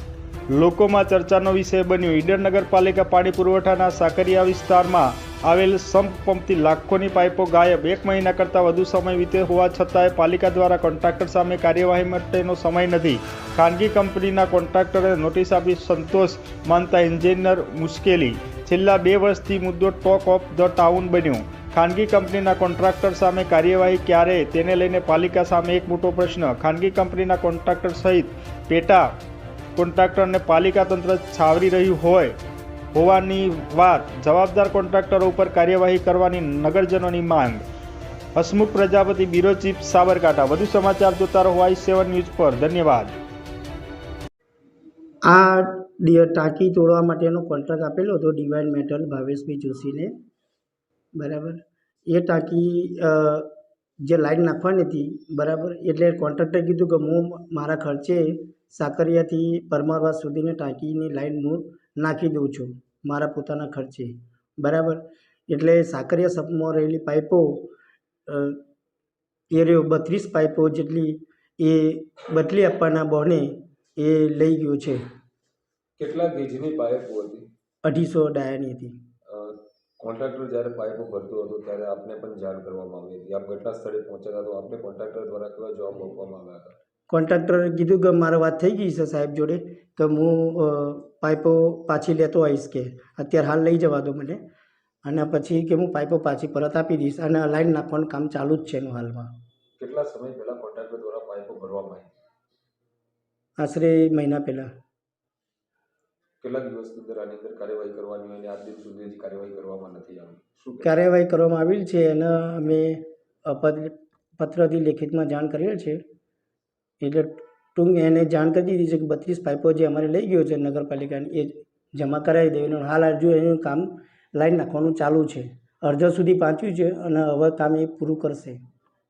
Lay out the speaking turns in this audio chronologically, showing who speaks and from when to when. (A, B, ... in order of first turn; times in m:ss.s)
0:00.5-0:29.1 A
0:29.8-0:32.4 A
0:32.9-0:37.6 A
0:38.4-0:43.2 A
0:45.3-0:50.1 B
0:51.2-0:53.5 B
0:54.0-1:07.7 B
1:08.3-1:08.6 B
1:09.5-1:15.0 B
1:16.0-1:17.5 C
1:17.8-1:19.0 B
1:19.3-1:26.7 C
1:27.1-1:34.4 B
1:35.0-1:39.3 B
1:39.8-1:42.1 C
1:43.6-1:44.7 B
1:46.4-1:50.9 C
1:50.8-1:56.0 B
1:57.0-2:08.6 B